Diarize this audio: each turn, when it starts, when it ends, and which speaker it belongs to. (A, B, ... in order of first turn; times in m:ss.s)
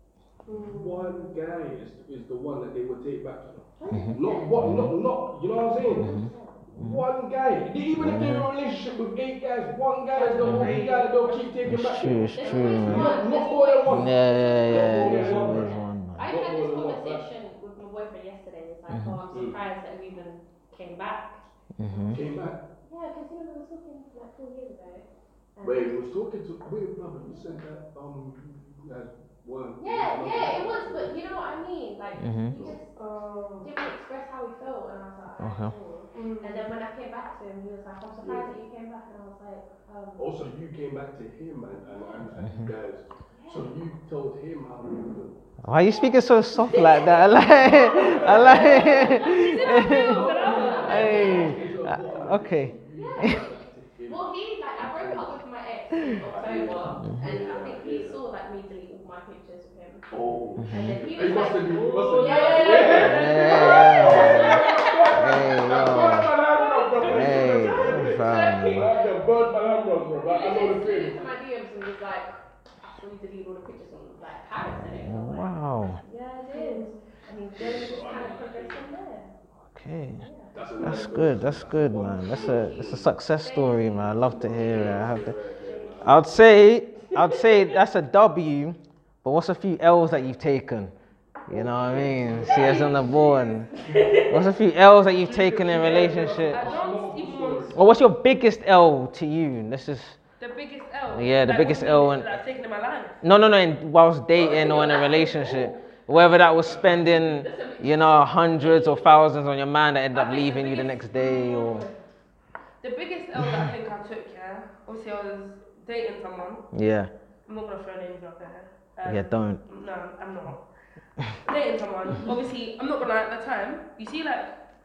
0:00.5-0:01.1 A
0:00.5-0:06.2 B
0:03.8-0:04.9 C
0:03.9-0:05.0 D
0:05.8-0:06.6 C
0:06.0-0:07.0 D
0:06.7-0:17.3 B
0:08.0-0:08.5 D
0:10.2-0:11.5 A
0:10.4-0:10.8 C
0:10.4-0:10.8 D
0:11.7-0:13.2 D
0:12.4-0:21.4 C
0:13.9-0:16.3 D
0:18.9-0:19.2 D
0:19.3-0:19.6 B
0:21.8-0:22.2 D
0:22.1-0:22.6 B
0:22.8-0:26.0 C
0:25.6-0:31.6 B
0:27.2-0:27.6 C
0:29.8-0:32.9 C
0:32.2-0:32.7 D
0:32.5-0:32.8 B
0:33.0-0:33.7 A
0:33.6-0:40.4 C
0:35.4-0:35.7 D
0:36.1-0:36.7 A
0:38.2-0:38.5 B
0:40.2-0:45.4 B
0:42.4-0:42.7 D
0:43.3-0:43.7 C
0:45.6-0:53.4 D
0:46.5-0:51.7 C
0:47.6-0:55.4 B
0:49.2-0:51.6 A
0:52.9-0:53.5 C
0:54.1-1:00.1 C
0:56.0-0:58.2 B
1:00.1-1:11.2 B
1:00.6-1:01.0 D
1:00.7-1:19.3 C
1:01.6-1:03.9 A
1:02.9-1:06.3 D
1:07.0-1:08.9 D
1:14.8-1:16.0 D
1:16.5-1:16.9 A
1:17.6-1:18.9 B
1:19.7-1:20.2 D
1:20.2-1:21.0 C
1:20.5-1:23.1 B
1:20.8-1:25.3 D
1:22.3-1:26.3 C
1:24.3-1:26.3 B
1:26.0-1:30.9 D
1:27.2-1:27.6 C
1:31.5-1:33.7 D
1:31.5-1:32.9 B
1:32.4-1:34.5 C
1:34.3-1:36.7 D
1:35.2-1:37.8 B
1:36.5-1:37.8 A
1:37.7-1:40.2 D
1:40.4-1:43.2 A
1:41.1-1:42.4 D
1:43.2-1:51.9 D
1:44.4-1:45.8 C
1:44.4-1:45.1 B
1:46.5-1:47.4 B
1:47.2-1:49.2 C
1:50.1-1:52.0 C
1:52.8-1:56.6 A
1:56.7-1:57.1 D
1:57.5-2:00.6 A
1:59.1-1:59.6 D
2:01.4-2:04.5 A